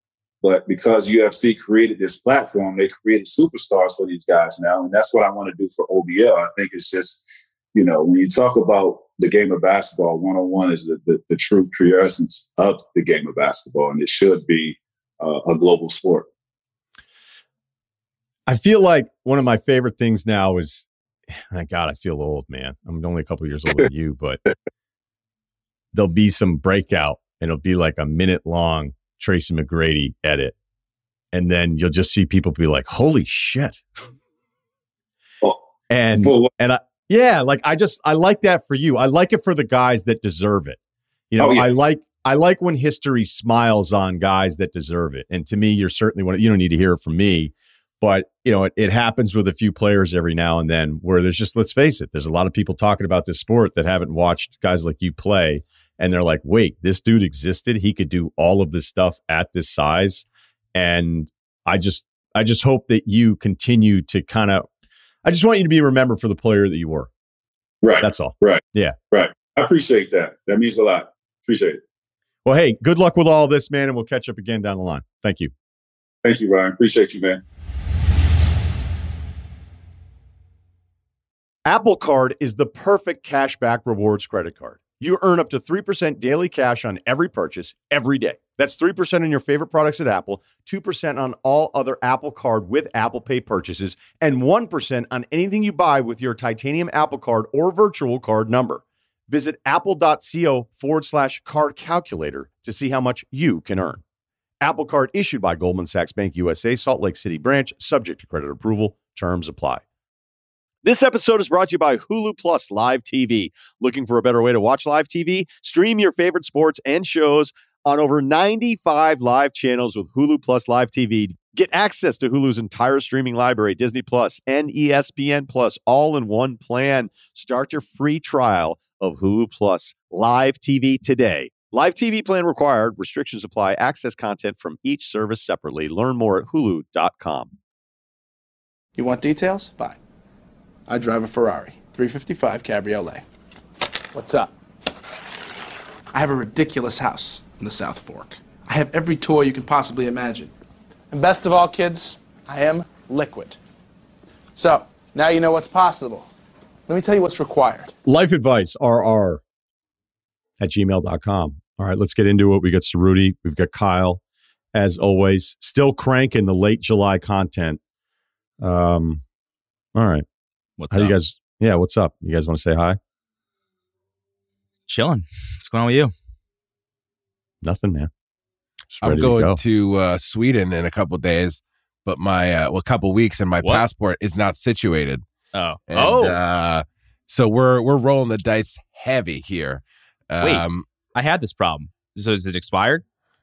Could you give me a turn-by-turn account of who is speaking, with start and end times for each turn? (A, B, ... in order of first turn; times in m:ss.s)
0:00.4-0:07.2 A
0:07.7-0:16.3 A
0:18.5-0:24.4 B
0:25.9-0:30.5 B
0:31.3-0:33.8 B
0:35.9-0:40.8 B
0:36.2-0:36.5 A
0:41.3-1:04.6 B
0:41.4-0:41.7 A
1:05.2-1:07.1 B
1:07.8-1:08.6 A
1:08.0-1:09.0 B
1:09.1-1:11.8 A
1:12.4-1:15.5 B
1:16.2-1:17.4 A
1:21.6-1:44.0 B
1:44.6-1:49.8 B
1:50.8-2:17.5 B
2:19.0-2:20.0 C
2:20.9-2:23.2 C
2:24.1-2:24.5 C
2:26.1-2:30.5 C
2:31.1-2:33.6 C
2:34.5-2:36.3 C
2:36.9-2:37.9 C
2:38.0-2:39.4 B
2:40.6-2:44.2 B
2:44.7-2:47.8 B
2:48.6-2:49.2 B
2:49.9-2:50.2 B
2:50.8-2:51.1 D
2:50.9-2:53.0 B
2:54.9-2:56.1 D
2:57.6-2:58.1 B
2:58.9-2:59.6 B
2:59.0-3:05.2 E
3:05.5-3:06.4 D
3:05.9-3:10.8 E
3:11.1-3:13.0 D